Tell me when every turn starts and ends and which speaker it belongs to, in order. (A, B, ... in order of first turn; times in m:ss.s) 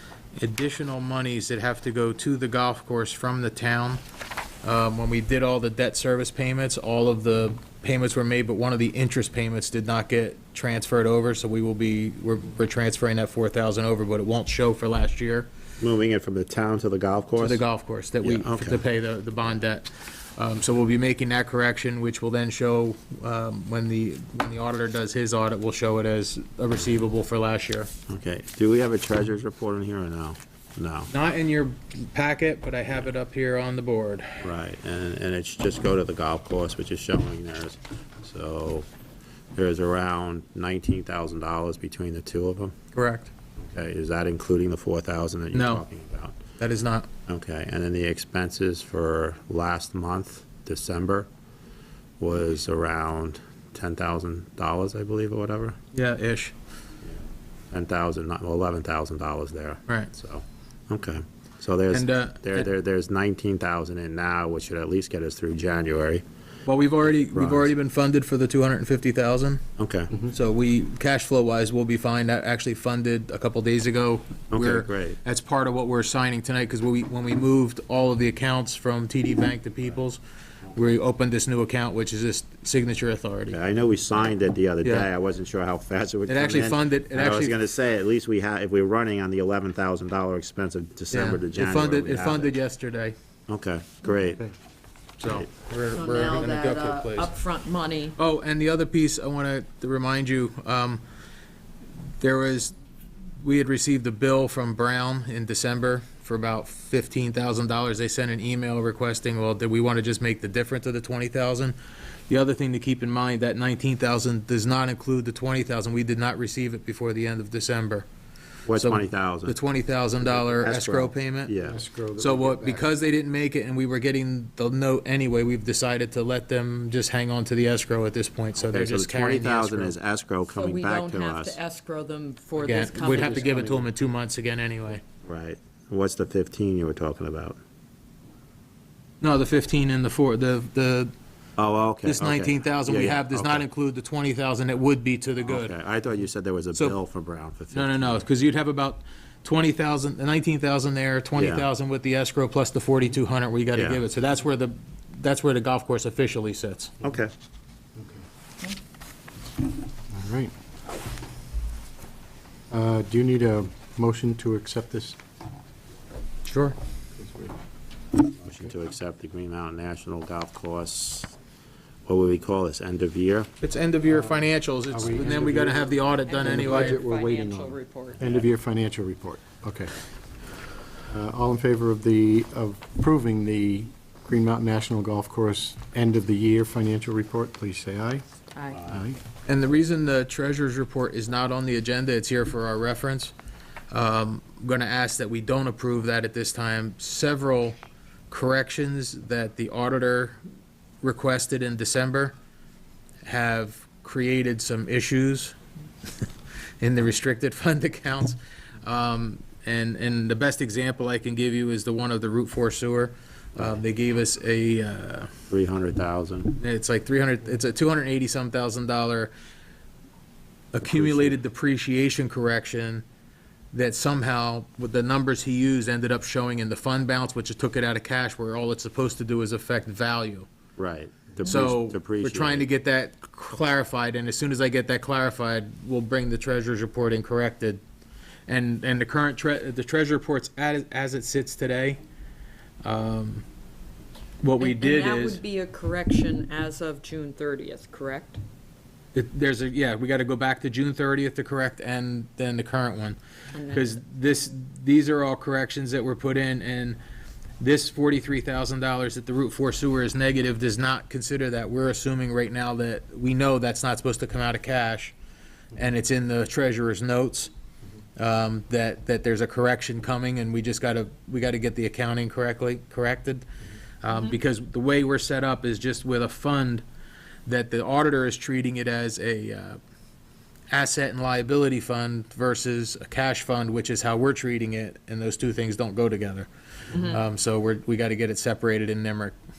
0:00.3-0:04.0 A
0:04.6-0:15.5 A
0:15.8-0:17.6 B
0:17.4-0:27.9 A
0:18.2-0:18.8 B
0:28.1-0:31.1 B
0:31.1-0:34.4 A
0:34.4-0:38.9 B
0:39.5-0:42.7 B
0:42.9-0:43.3 A
0:43.6-0:46.4 B
0:45.5-0:45.8 A
0:46.6-0:47.1 A
0:47.3-0:51.3 B
0:52.2-0:55.8 B
0:55.9-0:56.5 A
0:57.7-1:06.2 B
1:01.9-1:02.7 A
1:06.6-1:09.6 A
1:07.3-1:07.7 B
1:09.8-1:10.1 B
1:10.2-1:20.2 A
1:14.5-1:15.2 B
1:20.7-1:23.6 A
1:23.5-1:32.6 B
1:24.8-1:25.1 A
1:26.3-1:27.6 A
1:31.1-1:33.1 A
1:33.5-1:34.4 B
1:35.2-1:37.3 A
1:35.9-1:38.2 C
1:38.2-1:41.0 A
1:42.2-1:42.8 A
1:43.4-1:51.8 A
1:52.3-1:58.1 A
1:58.7-1:59.6 B
1:58.8-2:01.5 A
2:00.2-2:01.8 B
2:01.6-2:02.8 D
2:02.2-2:09.9 A
2:08.6-2:11.6 B
2:10.5-2:13.7 C
2:12.6-2:15.0 A
2:13.1-2:13.7 B
2:15.2-2:17.6 B
2:19.2-2:21.1 A
2:21.6-2:23.6 B
2:22.0-2:25.7 A
2:25.4-2:28.2 B
2:27.7-2:36.9 A
2:31.4-2:31.7 B
2:33.7-2:34.0 B
2:37.0-2:37.3 B
2:40.1-2:40.5 D
2:42.7-2:45.2 D
2:46.4-2:46.8 A
2:47.2-2:47.5 D
2:48.4-2:51.3 B
2:52.0-2:53.5 B
2:53.6-2:57.0 A
2:54.1-2:59.9 D
2:56.2-2:58.3 C
3:01.1-3:08.2 D
3:08.5-3:08.8 C
3:08.8-3:09.2 D
3:09.4-3:13.3 A
3:13.9-3:17.8 A
3:18.3-3:20.4 A
3:21.0-3:22.3 A
3:23.2-3:25.6 A
3:26.8-3:35.3 A
3:35.5-3:36.5 B
3:36.6-3:39.3 A
3:40.7-3:43.0 A
3:40.8-3:41.3 B
3:43.7-3:50.5 A
3:50.8-3:52.7 B
3:51.4-3:57.8 A
3:58.5-4:02.0 A
4:02.8-4:03.4 A
4:04.4-4:05.4 A
4:04.6-4:08.4 C
4:09.1-4:17.0 A
4:13.5-4:13.9 C
4:17.6-4:25.1 A
4:25.7-4:27.5 A
4:28.2-4:33.4 A
4:34.0-4:36.8 A
4:34.1-4:34.4 C
4:37.4-4:39.8 A
4:40.7-4:49.4 A